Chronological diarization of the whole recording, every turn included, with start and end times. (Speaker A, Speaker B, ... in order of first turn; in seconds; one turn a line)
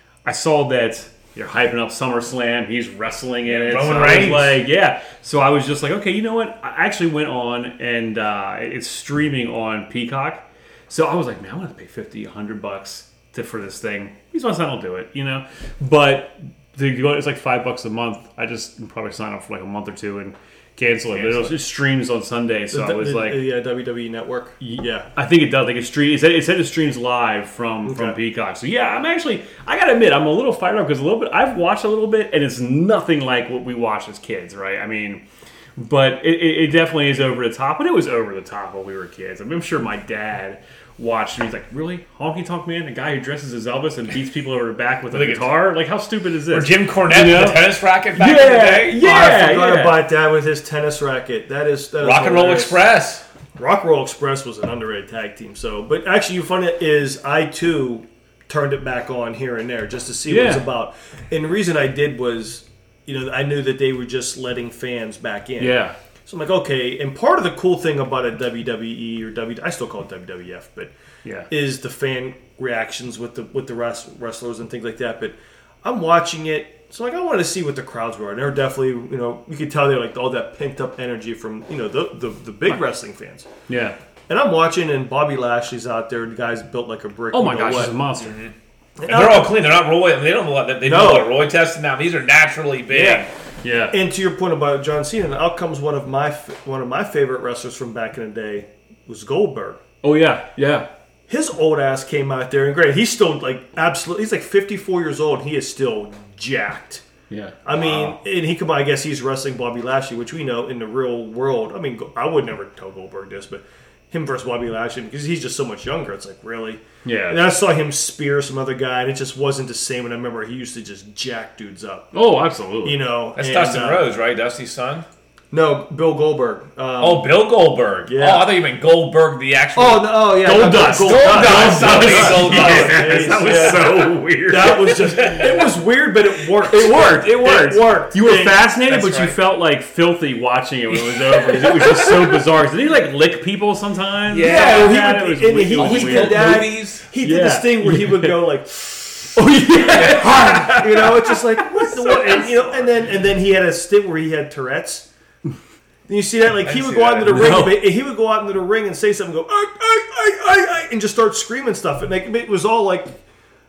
Speaker A: 0.2-23.4
Speaker B: 3.5-4.6
Speaker B: 21.1-21.5
Speaker C: 22.7-25.1
Speaker A: 24.6-35.2
Speaker C: 27.8-28.2
Speaker A: 35.8-50.0
Speaker B: 45.1-45.5
Speaker B: 46.5-49.0
Speaker C: 49.0-52.8
Speaker B: 52.0-53.2
Speaker C: 53.6-70.9
Speaker A: 60.3-60.6
Speaker A: 65.6-66.0
Speaker A: 71.2-71.5
Speaker C: 71.5-83.5
Speaker A: 83.7-84.0
Speaker C: 84.3-88.0
Speaker A: 87.3-88.3
Speaker B: 88.2-88.5
Speaker C: 89.0-89.6
Speaker B: 89.0-93.3
Speaker C: 90.8-91.3
Speaker C: 92.9-93.2
Speaker A: 93.6-93.9
Speaker C: 93.9-99.8
Speaker A: 100.0-100.9
Speaker C: 101.3-107.0
Speaker A: 107.3-108.2
Speaker C: 107.6-122.1
Speaker A: 117.0-117.4
Speaker A: 122.1-123.0
Speaker C: 122.8-124.1
Speaker B: 123.3-125.1
Speaker C: 125.5-127.4
Speaker B: 127.0-134.1
Speaker C: 128.1-128.6
Speaker C: 129.7-138.7
Speaker A: 130.4-135.4
Speaker B: 135.0-135.6
Speaker A: 136.6-148.5
Speaker B: 138.9-139.4
Speaker B: 140.9-142.4
Speaker B: 144.3-145.0
Speaker C: 144.4-149.1
Speaker B: 145.7-147.0
Speaker A: 149.1-152.5
Speaker B: 149.9-150.9
Speaker C: 150.2-155.1
Speaker C: 156.1-163.2
Speaker B: 156.6-157.6
Speaker A: 157.2-157.9